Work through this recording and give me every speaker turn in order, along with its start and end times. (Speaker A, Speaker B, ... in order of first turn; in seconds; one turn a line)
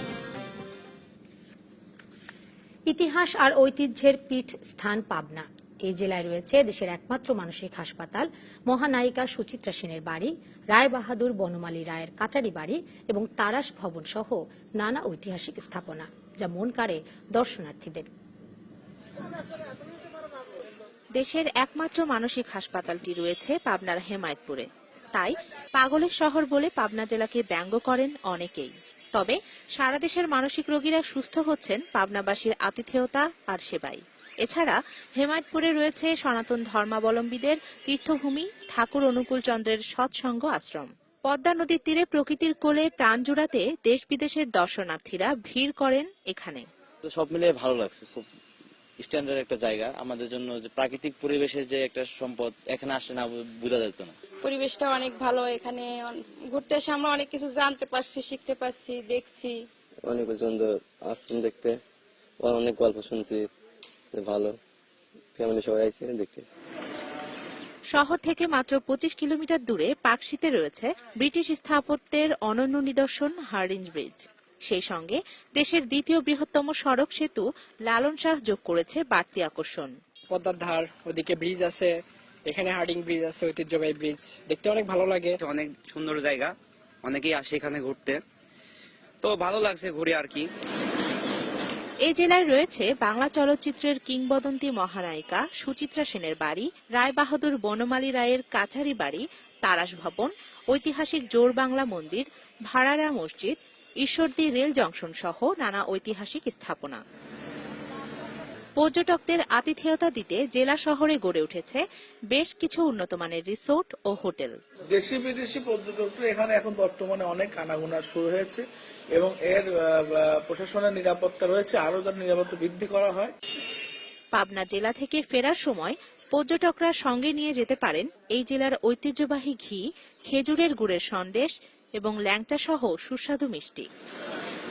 Speaker A: 2.9-18.1
Speaker B: 21.2-46.6
Speaker C: 47.0-48.2
Speaker C: 49.0-54.1
Speaker D: 54.4-59.6
Speaker E: 60.0-61.8
Speaker E: 62.4-63.5
Speaker E: 64.1-64.5
Speaker E: 65.3-66.5
Speaker B: 67.9-79.9
Speaker F: 80.3-81.9
Speaker F: 82.5-85.4
Speaker G: 85.5-86.5
Speaker G: 87.0-88.2
Speaker G: 89.2-90.4
Speaker B: 92.0-107.0
Speaker B: 108.8-114.5
Speaker H: 114.9-123.3
Speaker B: 124.4-133.9